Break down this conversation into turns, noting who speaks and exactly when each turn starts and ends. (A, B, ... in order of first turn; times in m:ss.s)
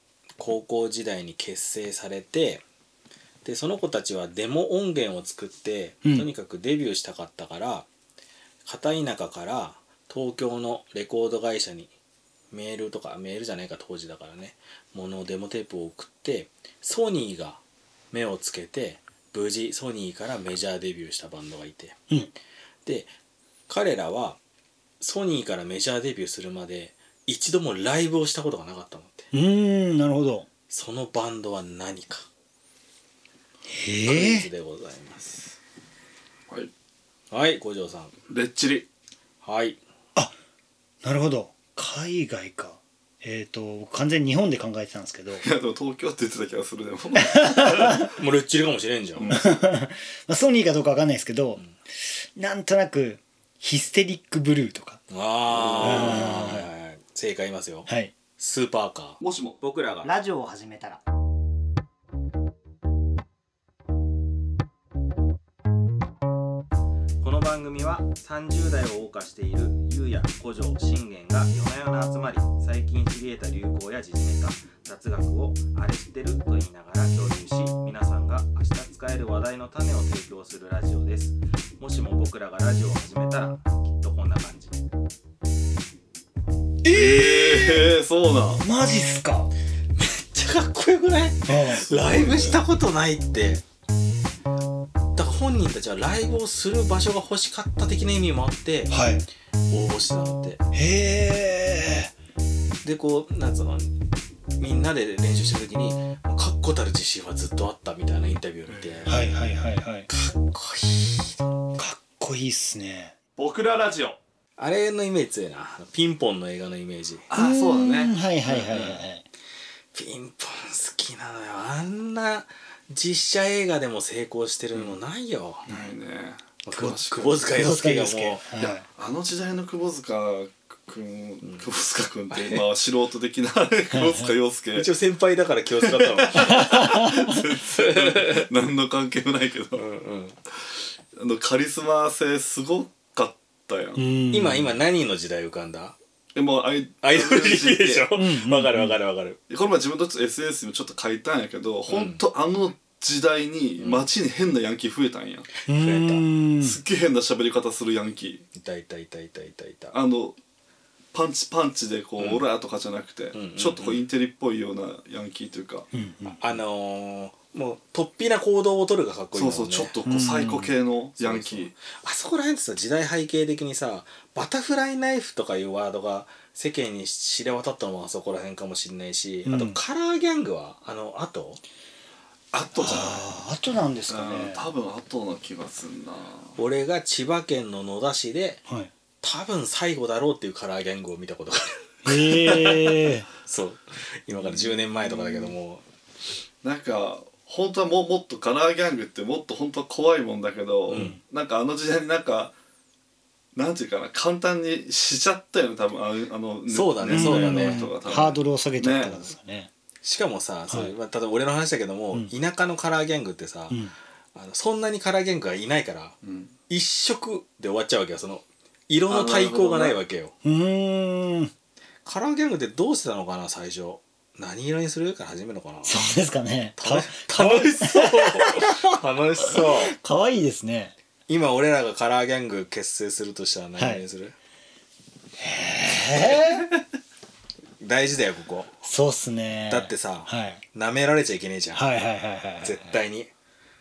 0:00.4-0:02.6 A
0:03.4-0:07.9 A
0:08.6-0:11.9 A
0:12.5-0:17.6 A
0:18.1-0:22.0 A
0:22.8-0:23.1 A
0:23.7-0:24.4 A
0:25.0-0:29.3 A
0:29.3-0:30.5 B
0:30.7-0:32.3 A
0:33.7-0:34.5 B
0:34.0-0:35.6 A
0:37.3-0:38.1 A
0:38.3-0:38.9 C
0:39.4-0:39.8 A
0:41.0-0:45.4 B
0:45.4-0:48.1 C
0:47.2-0:48.1 B
0:48.1-0:49.3 A
0:49.2-0:49.6 C
0:49.3-0:55.0 B
0:55.1-1:00.1 A
0:55.5-0:56.6 C
0:55.8-0:56.7 B
0:57.9-0:58.1 B
0:59.2-0:59.6 C
1:00.0-1:01.0 B
1:07.2-1:24.8 A
1:26.8-1:27.9 A
1:26.9-1:28.6 C
1:28.6-1:29.5 B
1:30.0-1:33.6 A
1:31.5-1:31.9 B
1:31.9-1:32.6 C
1:35.2-1:39.0 A
1:38.9-1:39.2 B
1:39.7-1:40.6 A
1:40.7-1:42.1 B
1:42.8-1:43.9 A
1:44.6-1:49.2 A
1:48.7-1:49.3 C
1:49.1-1:50.1 B
1:50.1-1:51.3 A
1:51.8-1:53.1 B
1:53.4-1:54.2 C
1:54.6-1:57.2 A
1:57.3-1:59.0 C
1:57.4-1:59.2 B
1:59.9-2:05.7 A
2:05.7-2:07.6 C
2:06.6-2:08.5 A
2:07.5-2:08.8 B
2:08.6-2:14.9 C
2:12.3-2:12.7 A
2:13.9-2:14.3 B
2:14.8-2:17.1 A
2:15.8-2:19.8 C
2:16.4-2:17.4 B
2:17.7-2:18.5 A
2:19.8-2:20.4 A
2:21.2-2:24.0 C
2:24.0-2:24.8 B
2:24.3-2:25.9 A
2:26.3-2:28.1 C
2:27.0-2:29.4 A
2:28.2-2:29.0 B
2:29.5-2:35.5 C
2:31.9-2:32.2 A
2:33.8-2:34.1 A
2:35.7-2:36.2 A
2:35.7-2:36.8 B
2:36.6-2:38.4 C
2:38.5-2:39.9 A
2:39.9-2:40.4 C
2:41.1-2:45.9 C
2:42.2-2:42.4 A
2:43.3-2:44.0 A
2:45.9-2:46.4 B
2:46.4-2:49.9 A
2:49.3-2:51.8 C
2:50.1-2:50.8 B
2:51.2-3:01.6 A
2:59.4-2:59.8 B
3:02.5-3:03.2 C
3:02.8-3:04.7 B
3:04.1-3:06.6 C
3:06.6-3:08.6 A
3:09.2-3:12.7 A
3:12.0-3:13.3 B
3:12.5-3:12.9 C
3:13.4-3:15.8 A
3:14.4-3:15.5 C
3:16.6-3:22.5 C
3:20.9-3:21.2 A
3:20.9-3:21.2 B
3:23.5-3:29.3 C
3:26.7-3:27.9 A
3:27.1-3:29.7 B
3:30.0-3:33.8 A
3:34.3-3:36.2 A
3:36.2-3:36.5 C
3:36.7-3:40.3 A
3:39.1-3:40.0 C
3:40.4-3:41.5 B
3:42.0-3:46.1 A
3:45.8-3:48.9 B
3:46.8-3:49.9 A
3:49.4-3:50.9 B
3:51.3-3:54.3 A
3:53.8-3:54.0 B
3:55.4-3:56.7 B
3:57.8-3:58.7 A
3:58.8-4:00.6 B
3:59.7-4:01.8 A
4:01.7-4:03.0 B
4:02.6-4:03.3 A